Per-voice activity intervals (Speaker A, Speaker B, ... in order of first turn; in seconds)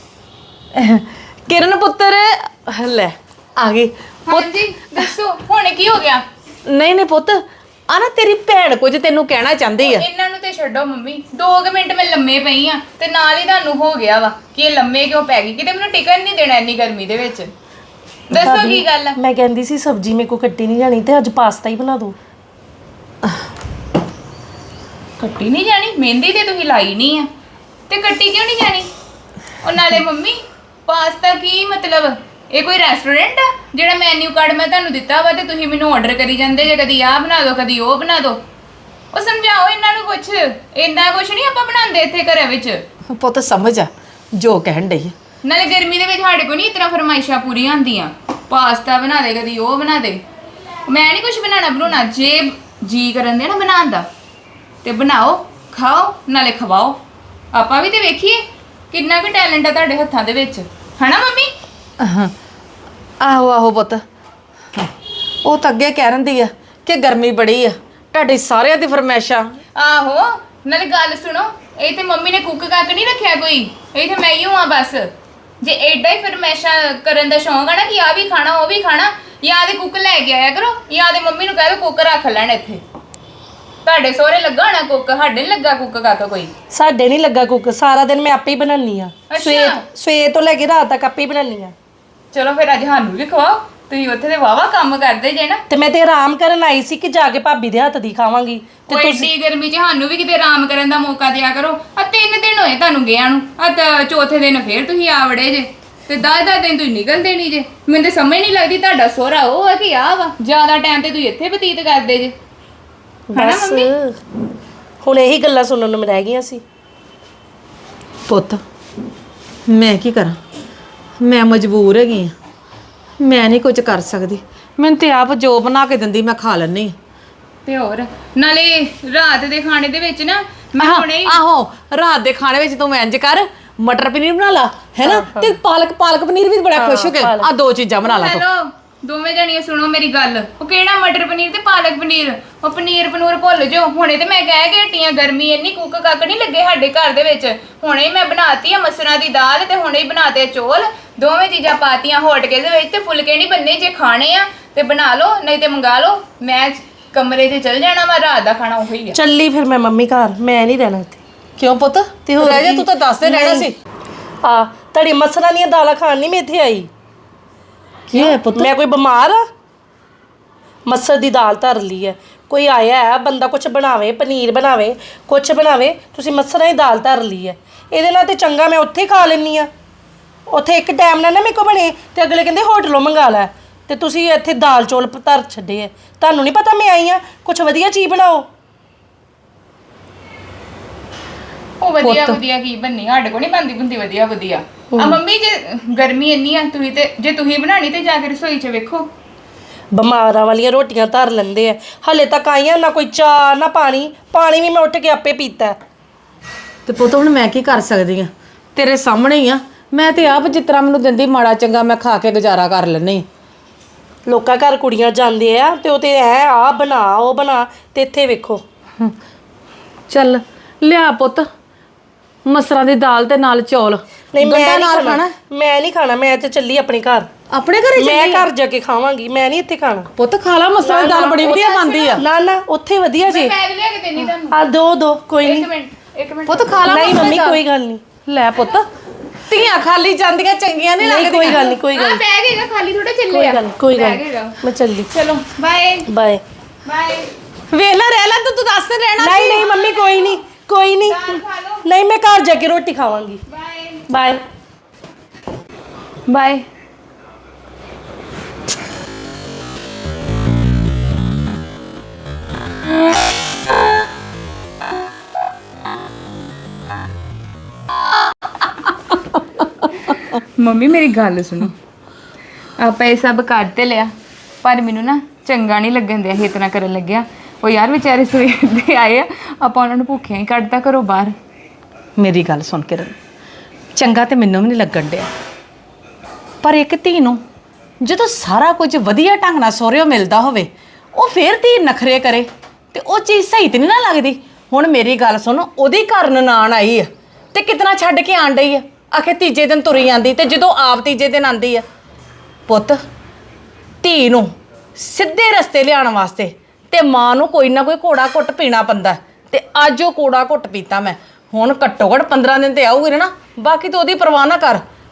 Speaker A: 0.8-5.1, 6.7-10.0, 43.1-45.1, 62.0-62.3, 63.2-64.0, 65.4-69.5, 118.3-118.6, 119.7-120.4, 121.2-122.3, 123.2-126.9, 130.8-138.4, 161.6-163.7, 168.1-168.7, 192.0-192.4, 206.9-213.2, 220.1-221.4, 222.4-225.3, 227.5-228.5, 230.2-232.2, 236.5-237.6, 238.2-238.9, 239.5-241.7, 247.7-249.7, 282.2-283.1, 283.9-285.3, 286.6-287.4, 288.0-301.8, 302.7-303.0, 304.0-314.8
Speaker B: 4.3-6.2, 9.8-17.5, 18.3-19.1, 25.2-27.3, 27.9-28.9, 29.6-38.4, 39.1-42.8, 45.4-50.2, 50.9-54.1, 54.8-57.0, 57.5-61.5, 69.8-75.1, 75.6-82.8, 83.8-86.5, 89.3-89.8, 92.3-95.6, 98.9-112.3, 113.3-113.9, 127.7-131.4, 138.0-159.2, 191.8-199.1, 231.5-232.2, 233.3-234.6, 235.4-237.4, 241.5-244.6, 245.1-246.1, 246.8-247.3, 249.7-250.4, 251.1-251.8, 253.5-254.0, 256.3-256.6, 270.6-271.7, 272.8-274.1, 274.6-281.3
Speaker C: 18.4-22.1, 86.7-91.7, 95.7-99.3, 113.3-114.1, 115.0-116.6, 135.0-135.6, 136.7-137.5, 159.1-161.2, 162.2-163.7, 164.4-166.9, 168.1-169.4, 170.9-179.7, 180.5-188.4, 194.9-195.2, 199.9-205.8, 214.2-218.6, 224.3-227.3, 228.0-230.1, 230.8-233.5, 234.5-235.7, 236.8-238.0, 241.0-242.2, 243.3-245.1, 246.1-246.4, 249.2-253.4, 254.1-254.4